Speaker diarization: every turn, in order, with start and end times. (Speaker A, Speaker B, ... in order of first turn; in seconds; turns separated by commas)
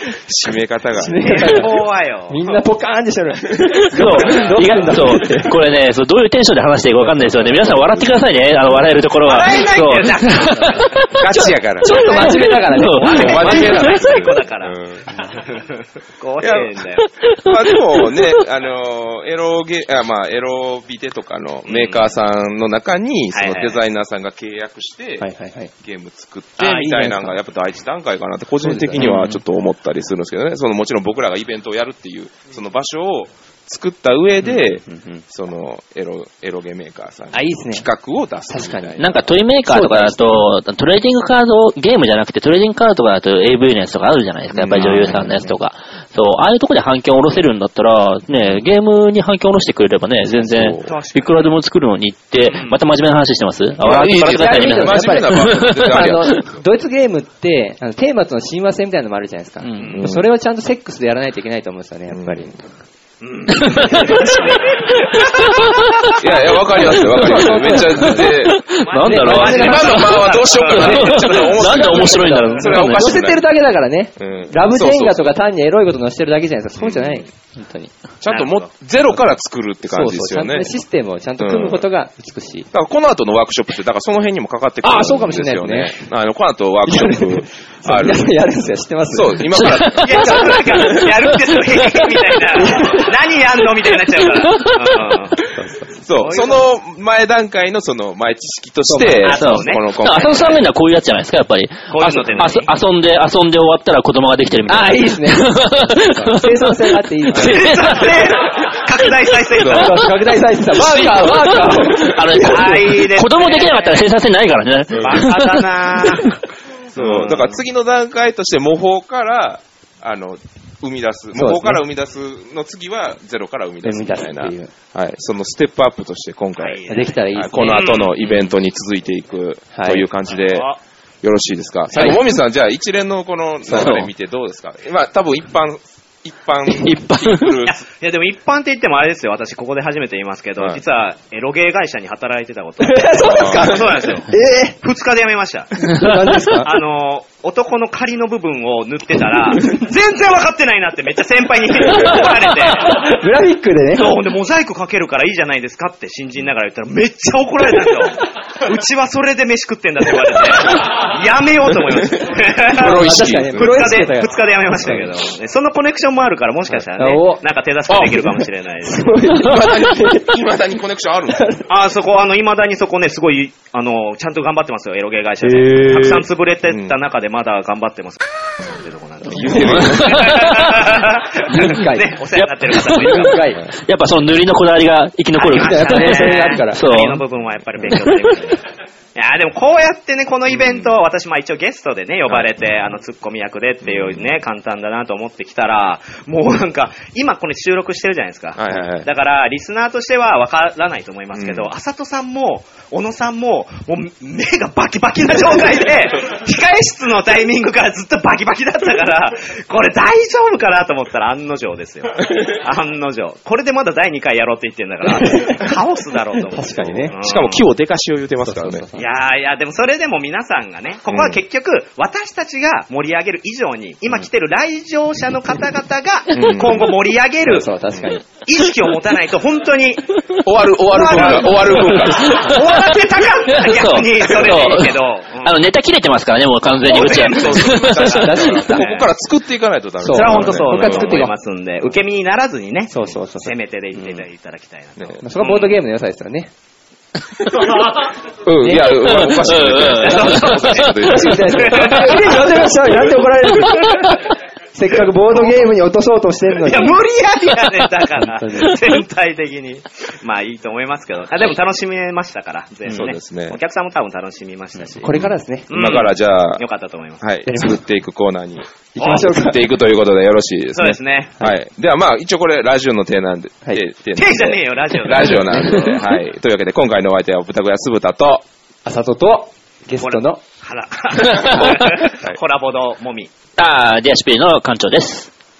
Speaker A: 0.1-1.6, Speaker B: 0.9-5.6, Speaker C: 1.2-2.6, Speaker A: 3.6-4.7, Speaker D: 3.6-11.2, Speaker C: 4.2-4.5, Speaker A: 7.2-8.1, Speaker C: 9.2-11.2, Speaker A: 11.1-12.4, Speaker B: 11.8-13.8, Speaker C: 11.9-17.1, Speaker D: 12.7-13.9, Speaker A: 13.1-15.0, Speaker A: 16.4-16.8, Speaker D: 17.2-18.3, Speaker A: 17.4-25.2, Speaker C: 21.6-22.1, Speaker C: 23.3-23.8, Speaker B: 25.2-25.7, Speaker A: 25.8-39.3, Speaker C: 26.6-26.9, Speaker B: 26.6-27.4, Speaker B: 28.6-29.4, Speaker B: 34.4-35.2, Speaker B: 37.3-37.9, Speaker B: 38.5-39.1, Speaker D: 39.0-56.4, Speaker B: 39.6-40.5, Speaker A: 44.5-45.4, Speaker B: 44.7-45.5, Speaker A: 50.3-50.9, Speaker C: 50.8-51.5, Speaker C: 52.4-52.8, Speaker A: 53.8-56.5, Speaker B: 54.0-62.6, Speaker D: 59.6-60.0, Speaker A: 59.9-60.3, Speaker A: 62.1-62.5, Speaker C: 63.2-66.2, Speaker D: 63.5-66.2, Speaker A: 66.2-68.6, Speaker B: 66.8-70.3, Speaker D: 67.2-73.2, Speaker C: 68.7-72.2, Speaker A: 69.3-73.4, Speaker B: 70.8-77.9, Speaker A: 74.2-75.3, Speaker A: 76.8-77.2, Speaker A: 78.2-80.7, Speaker C: 78.3-78.7, Speaker B: 79.8-82.7, Speaker A: 81.4-81.8, Speaker A: 82.7-88.3, Speaker B: 84.8-86.0, Speaker B: 86.8-89.6, Speaker A: 89.1-90.8, Speaker D: 89.5-92.2, Speaker C: 90.0-95.5, Speaker B: 92.6-93.1, Speaker D: 94.3-95.1, Speaker B: 95.4-96.0, Speaker A: 96.0-100.6, Speaker C: 96.1-96.7, Speaker B: 98.8-99.4, Speaker C: 99.2-100.4, Speaker D: 99.2-108.2, Speaker C: 101.9-102.7, Speaker B: 104.7-107.8, Speaker C: 107.3-110.0, Speaker A: 109.5-109.9, Speaker B: 109.6-112.8, Speaker D: 110.8-116.4, Speaker C: 112.4-114.0, Speaker C: 115.0-116.4, Speaker A: 116.9-130.7, Speaker C: 116.9-117.6, Speaker B: 121.3-121.8, Speaker B: 123.8-124.7, Speaker C: 126.5-128.5, Speaker B: 126.9-127.9, Speaker B: 129.7-130.1, Speaker C: 130.3-130.8, Speaker A: 131.2-137.8, Speaker B: 131.9-132.2, Speaker B: 133.6-134.0, Speaker D: 133.7-134.1, Speaker D: 136.8-137.5, Speaker C: 137.6-144.3, Speaker B: 142.8-144.8, Speaker A: 143.3-143.7, Speaker C: 144.8-145.9, Speaker B: 145.9-146.7, Speaker C: 146.5-153.2, Speaker B: 151.8-154.2, Speaker C: 153.9-169.1, Speaker A: 161.9-163.9, Speaker B: 162.7-165.0, Speaker B: 167.0-167.4, Speaker A: 167.9-168.3, Speaker B: 168.8-170.4, Speaker A: 169.3-171.5, Speaker B: 171.3-171.7, Speaker C: 171.7-183.4, Speaker B: 175.5-176.2, Speaker A: 176.7-176.9, Speaker A: 179.3-180.4, Speaker D: 179.8-180.8, Speaker B: 181.4-182.2, Speaker D: 182.3-187.2, Speaker B: 182.9-183.6, Speaker C: 185.4-217.7, Speaker B: 185.5-186.9, Speaker D: 187.9-188.2, Speaker A: 190.5-190.9, Speaker A: 193.8-194.3, Speaker A: 198.6-199.1, Speaker A: 201.3-201.7, Speaker B: 215.0-215.6, Speaker B: 216.4-217.1, Speaker A: 216.9-218.8, Speaker B: 218.4-219.1, Speaker C: 218.9-227.7, Speaker A: 221.1-221.4, Speaker A: 226.3-226.9, Speaker B: 227.4-228.2, Speaker C: 228.3-230.2, Speaker A: 230.4-232.4, Speaker B: 230.9-232.0, Speaker C: 230.9-235.6, Speaker D: 232.0-238.5, Speaker C: 236.8-239.1, Speaker A: 236.8-241.2, Speaker B: 238.0-238.9, Speaker B: 240.0-241.3, Speaker C: 240.0-245.8, Speaker B: 242.9-244.2, Speaker B: 245.2-246.5, Speaker A: 247.5-252.4, Speaker B: 248.6-249.6, Speaker D: 249.0-250.9, Speaker C: 249.8-252.4, Speaker B: 250.1-257.0, Speaker C: 253.6-254.2, Speaker C: 256.6-265.1, Speaker B: 258.2-258.8, Speaker A: 262.9-263.6, Speaker B: 265.0-265.7, Speaker A: 265.0-266.6, Speaker C: 265.7-267.2, Speaker A: 267.2-278.4, Speaker B: 267.4-267.8, Speaker B: 268.9-269.7, Speaker C: 269.0-269.3, Speaker C: 270.7-271.3, Speaker C: 274.1-276.0, Speaker B: 278.8-280.4, Speaker C: 280.0-283.3, Speaker D: 281.2-281.8, Speaker A: 281.7-282.4, Speaker D: 283.6-285.3